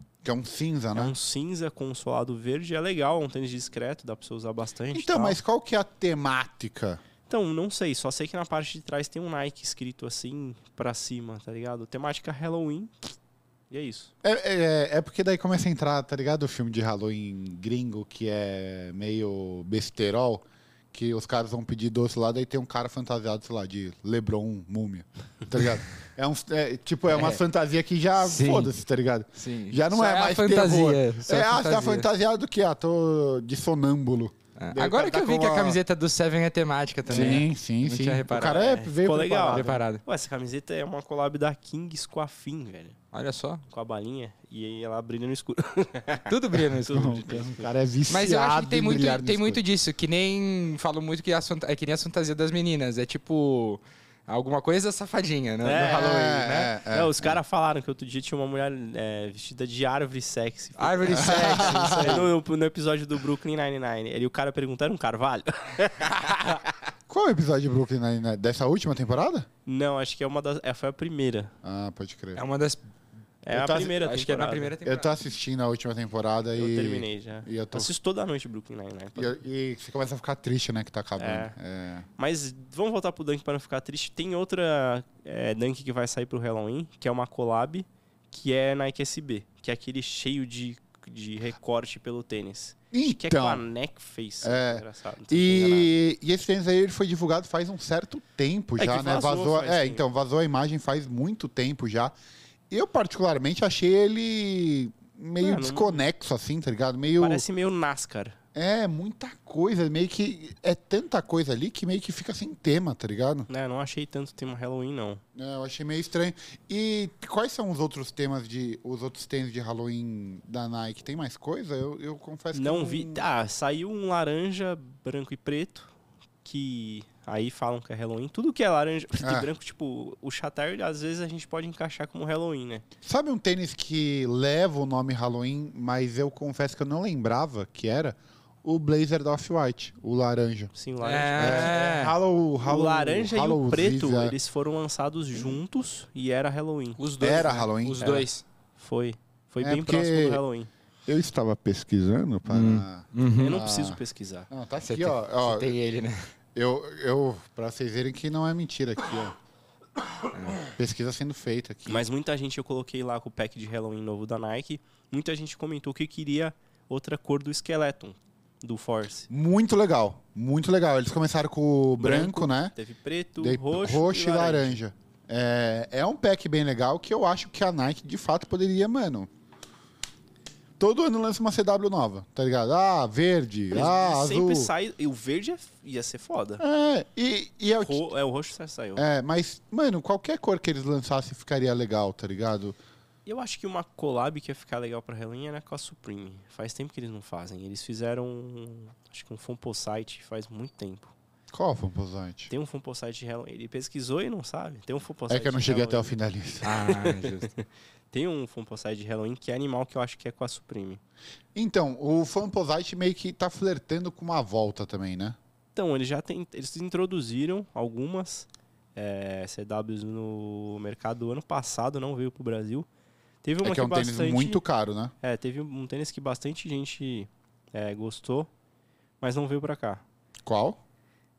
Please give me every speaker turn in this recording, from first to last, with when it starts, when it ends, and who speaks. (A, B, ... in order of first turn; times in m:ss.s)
0:00.2-0:01.1 A
0:00.9-0:05.4 B
0:04.9-0:07.0 A
0:07.3-0:13.1 B
0:13.7-0:14.1 B
0:14.2-0:35.8 A
0:27.1-0:27.4 C
0:28.2-0:28.7 C
0:29.4-0:32.1 C
0:34.6-0:38.6 C
0:37.1-0:39.8 A
0:37.1-0:37.4 B
0:38.3-0:43.0 B
0:39.5-0:40.0 C
0:43.1-0:43.6 C
0:43.7-0:47.7 B
0:46.3-0:47.2 C
0:46.9-0:49.6 A
0:48.1-0:56.7 C
0:55.6-0:56.1 B
0:55.7-0:57.4 A
0:56.9-1:06.6 B
1:00.8-1:02.3 C
1:01.1-1:02.3 A
1:07.1-1:09.5 A
1:09.7-1:11.5 B
1:11.6-1:12.4 A
1:12.3-1:12.8 C
1:13.4-1:14.7 B
1:13.5-1:13.9 A
1:13.5-1:15.1 C
1:14.8-1:17.9 A
1:16.6-1:19.3 B
1:19.2-1:22.0 A
1:21.2-1:21.5 B
1:22.2-1:35.9 B
1:32.9-1:33.6 A
1:34.4-1:42.2 A
1:38.8-1:40.0 B
1:42.7-1:47.4 A
1:45.4-1:46.0 B
1:47.2-1:48.4 B
1:48.5-1:53.5 A
1:53.5-1:55.2 B
1:55.3-2:03.2 A
2:02.5-2:05.9 B
2:06.4-2:12.8 B
2:09.2-2:09.5 A
2:13.0-2:20.7 A
2:20.7-2:21.9 B
2:21.0-2:22.2 C
2:21.4-2:24.4 A
2:22.6-2:30.7 B
2:27.0-2:28.4 C
2:27.2-2:28.0 A
2:29.6-2:30.4 A
2:31.0-2:35.8 A
2:32.5-2:33.6 C
2:33.3-2:34.5 B
2:34.8-2:36.3 C
2:36.5-2:39.3 A
2:40.3-2:40.7 C
2:40.7-2:42.0 A
2:41.9-2:49.3 B
2:49.3-2:52.7 A
2:52.0-2:54.8 B
2:53.4-2:59.3 A
3:00.8-3:04.7 A
3:03.7-3:06.6 B
3:06.6-3:08.0 A
3:07.8-3:09.0 B
3:09.0-3:12.8 A
3:13.2-3:21.1 B
3:21.5-3:22.5 A
3:22.5-3:26.1 B
3:25.3-3:26.8 A
3:26.6-3:27.5 C
3:26.7-3:31.0 B
3:31.5-3:35.4 A
3:35.8-3:42.9 B
3:43.4-3:44.6 B
3:43.6-3:45.1 A
3:45.2-3:48.5 B
3:49.2-3:50.0 B
3:50.4-3:50.8 A